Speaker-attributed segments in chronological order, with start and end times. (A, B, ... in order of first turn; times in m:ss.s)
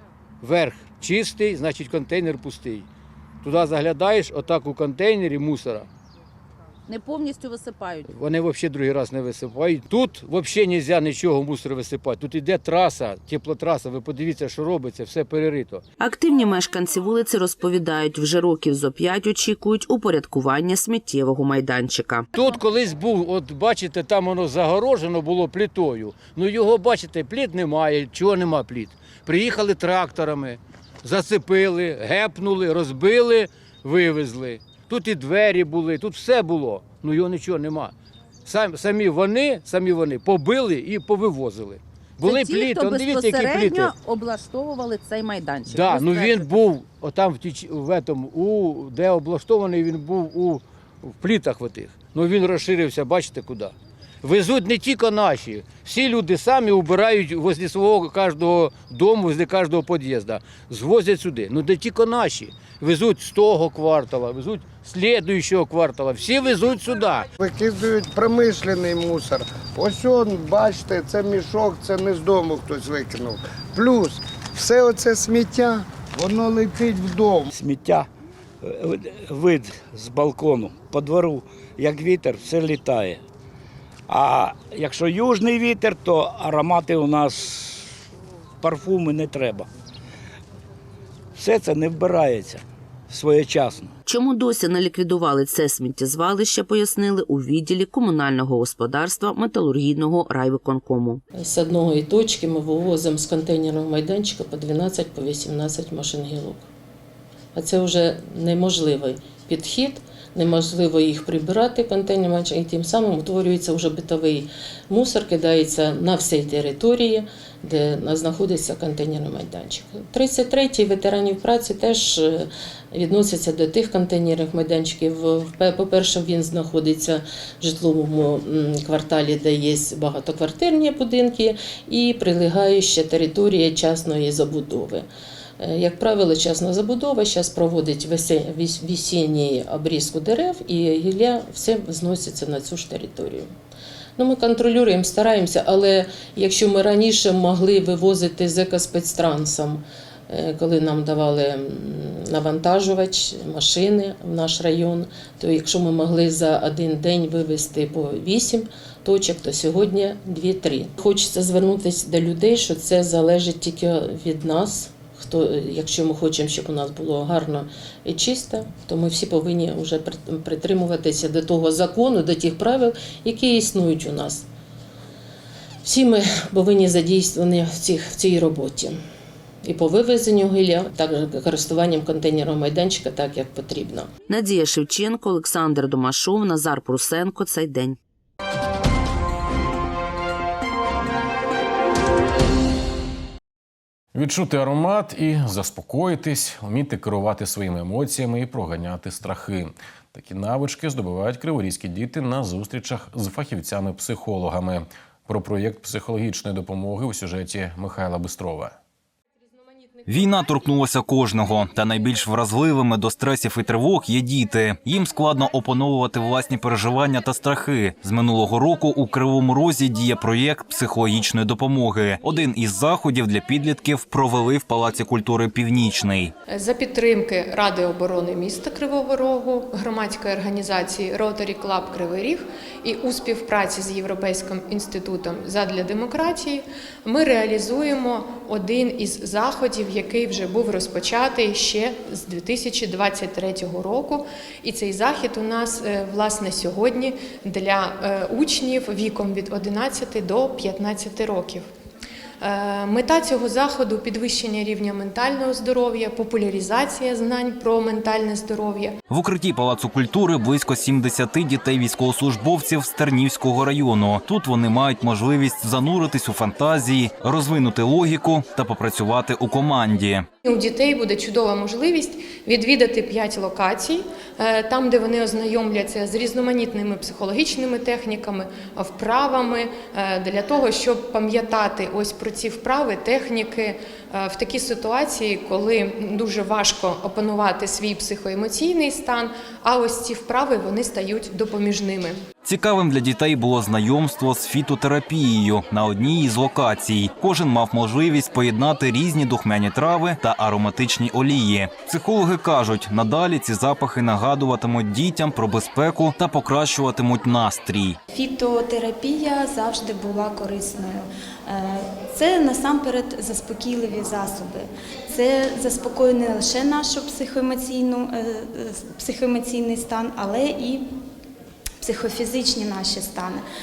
0:00.4-0:02.9 A
0:03.4-0:05.9 A
0:06.9-0:08.1 B
0:08.1-0:15.8 A
0:16.0-0:22.3 C
0:22.3-0:37.9 A
0:38.4-0:43.9 A
0:42.2-0:46.5 B
0:45.7-1:07.3 A
1:07.4-1:17.5 D
1:17.5-1:18.1 E
1:18.6-1:23.2 E
1:24.1-1:27.9 E
1:28.6-1:29.7 E
1:31.4-1:33.9 E
1:34.0-1:41.2 C
1:41.4-1:46.7 F
1:47.5-2:15.0 F
2:15.6-2:23.5 F
2:24.2-2:54.4 F
2:55.8-2:59.0 F
2:59.6-3:04.1 F
3:04.3-3:08.0 C
3:14.1-3:28.8 G
3:30.0-3:46.3 H
3:46.5-4:11.6 I
4:12.4-4:19.0 I
4:19.1-4:30.3 H
4:30.4-4:52.2 I
4:52.4-5:08.0 H
5:08.1-5:20.8 J
5:21.8-5:23.4 J